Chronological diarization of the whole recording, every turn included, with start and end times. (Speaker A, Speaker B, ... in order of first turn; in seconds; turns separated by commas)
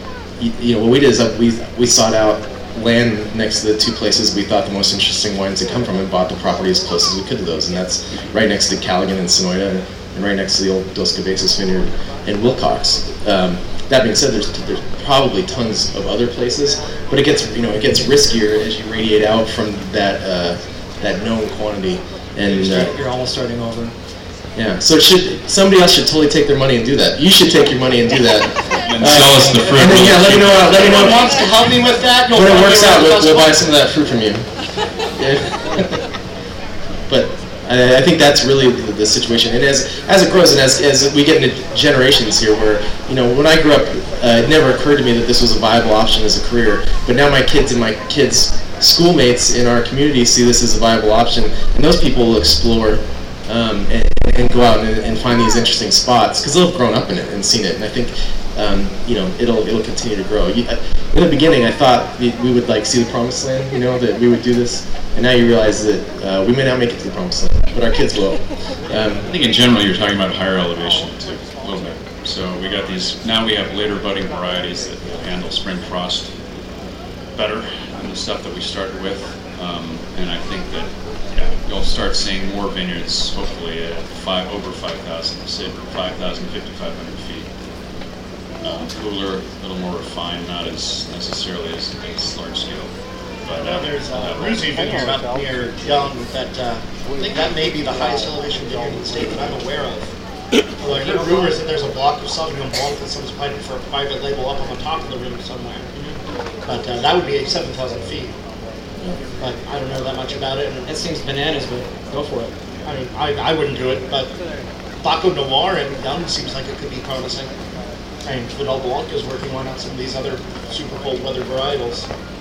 Speaker A: 0.4-22.9, Speaker B: 22.4-23.9, Speaker A: 24.6-31.3, Speaker C: 28.9-31.1, Speaker D: 29.4-29.9, Speaker D: 30.7-33.5, Speaker A: 32.3-34.5, Speaker A: 35.2-35.9, Speaker A: 37.1-69.2, Speaker C: 69.2-76.3, Speaker C: 77.3-87.5, Speaker C: 88.6-92.9, Speaker C: 93.4-94.7, Speaker D: 93.6-100.1, Speaker D: 100.8-106.2, Speaker B: 100.9-101.5, Speaker D: 106.7-108.3, Speaker D: 109.4-110.9, Speaker B: 110.8-112.5, Speaker D: 112.8-114.3, Speaker D: 115.0-117.5, Speaker D: 118.2-122.1